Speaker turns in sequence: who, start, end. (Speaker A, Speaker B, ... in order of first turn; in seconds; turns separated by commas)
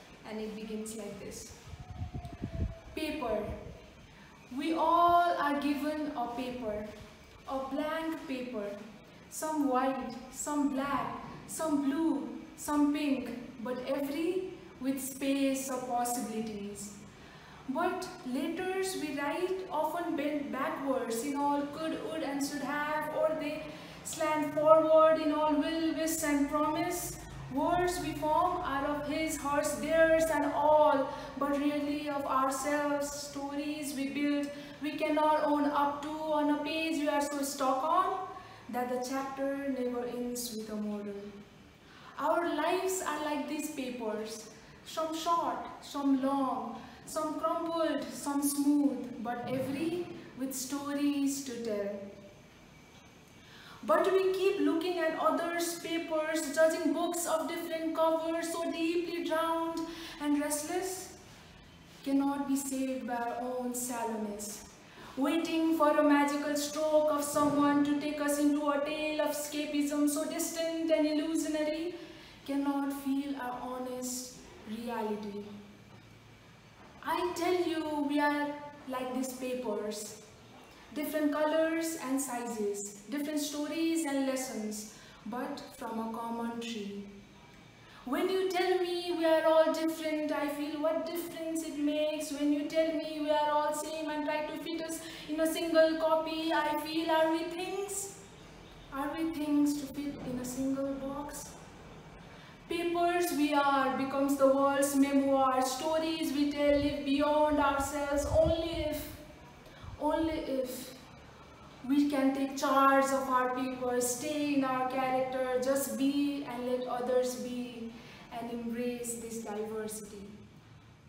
Speaker A: 0.2-1.6, Speaker A: 2.9-3.5, Speaker A: 4.5-6.9, Speaker A: 7.5-16.9, Speaker A: 17.7-41.3, Speaker A: 42.2-52.0, Speaker A: 53.8-61.1, Speaker A: 62.0-64.6, Speaker A: 65.2-75.5, Speaker A: 77.0-80.2, Speaker A: 80.9-87.1, Speaker A: 88.0-98.1, Speaker A: 98.9-101.5, Speaker A: 102.7-109.2, Speaker A: 110.0-111.0, Speaker A: 111.8-120.4